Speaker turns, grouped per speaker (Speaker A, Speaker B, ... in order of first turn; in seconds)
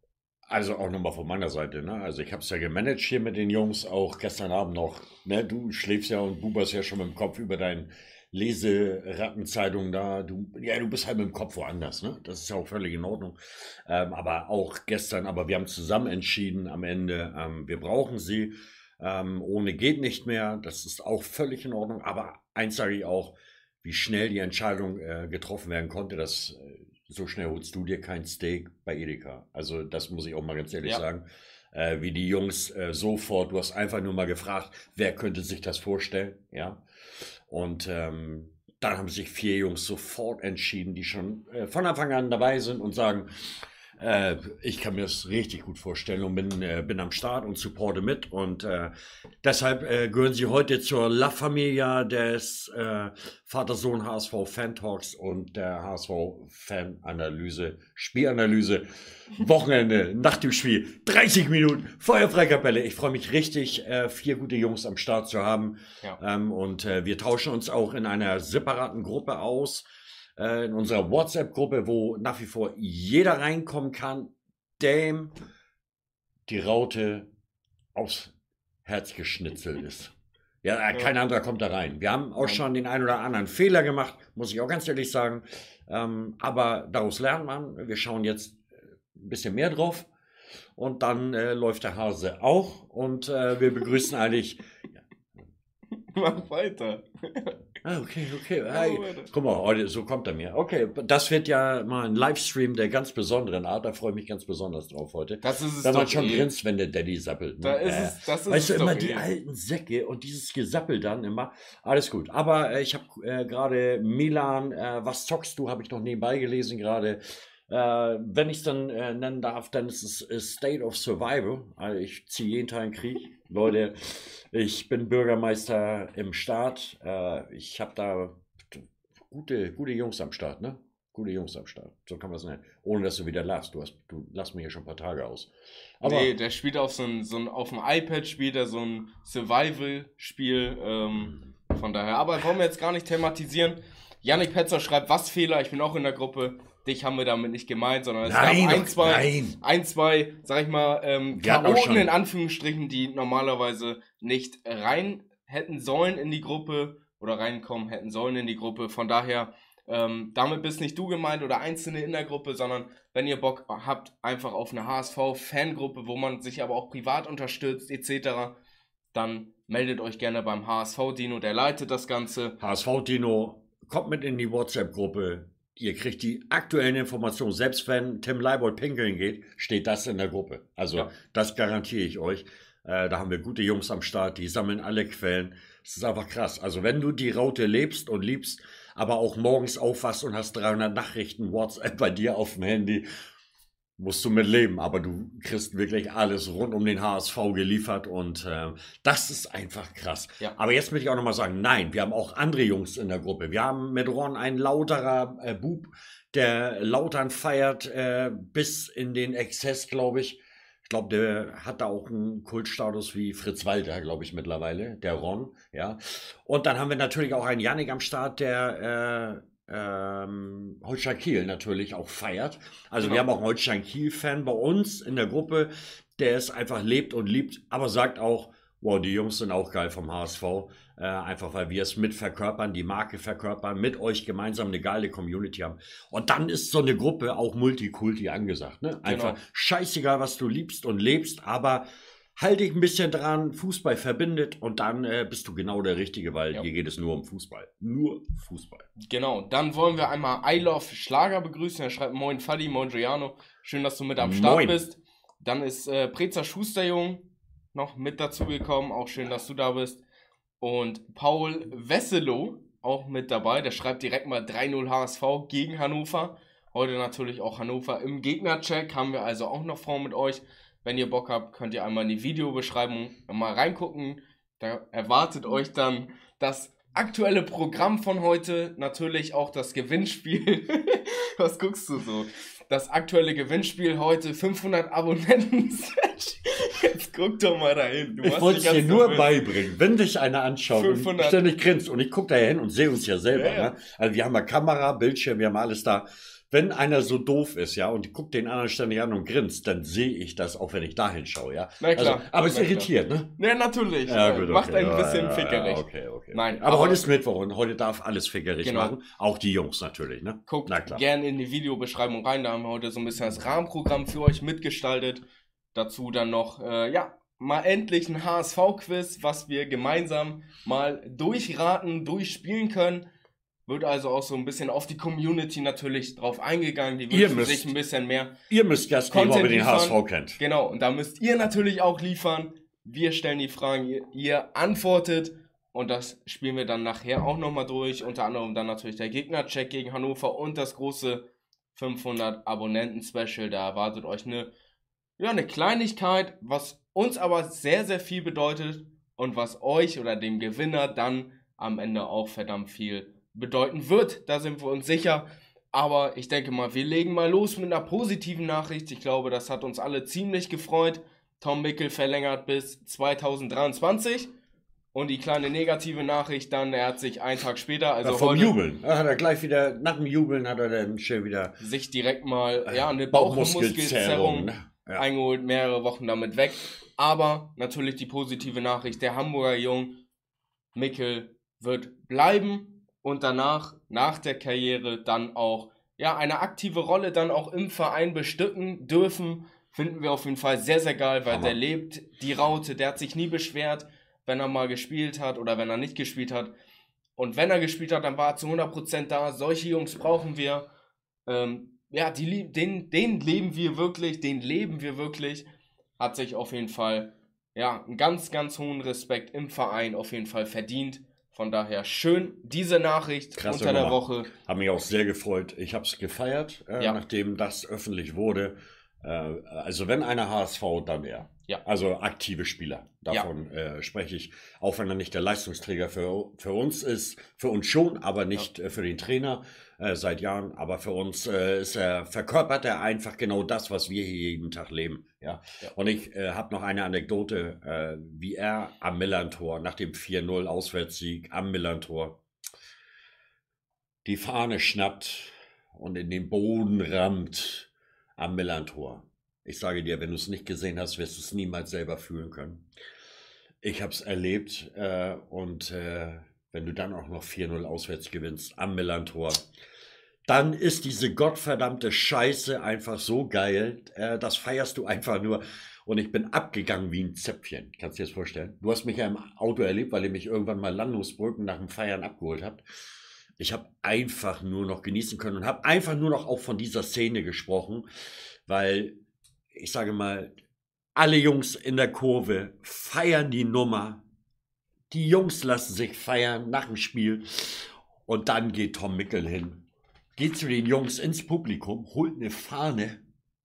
Speaker A: 0.5-36.8, 37.5-48.9, 49.4-69.8, 70.4-75.3, 76.5-77.3, 78.0-78.3, 78.8-88.6, 89.1-90.1, 90.8-95.0, 97.8-135.5, 136.0-136.3, 148.2-149.6, 151.3-152.1, 172.6-193.0, 194.0-241.8, 242.4-248.8, 254.2-254.8, 288.2-303.3, 304.1-311.0, 327.1-327.7, 328.5-330.4, 368.0-371.6, 372.7-375.1, 391.3-391.6, 413.4-442.2, 444.1-452.6, 453.6-459.5, 460.3-472.6, 473.4-477.9, 478.5-479.0, 479.5-480.3, 480.9-484.0, 484.9-489.6, 490.2-493.0
Speaker B: 96.1-97.6, 98.7-99.3, 105.4-106.5, 107.6-109.3, 136.0-168.6, 169.1-172.6, 223.0-223.3, 239.1-239.4, 249.0-260.0, 260.6-289.4, 290.7-291.4, 293.3-293.7, 301.8-307.0, 308.6-308.9, 310.5-323.1, 323.7-328.4, 329.1-344.5, 345.2-364.3, 364.9-368.6, 371.6-380.0, 380.8-396.5, 397.2-400.7, 401.3-405.5, 406.0-414.3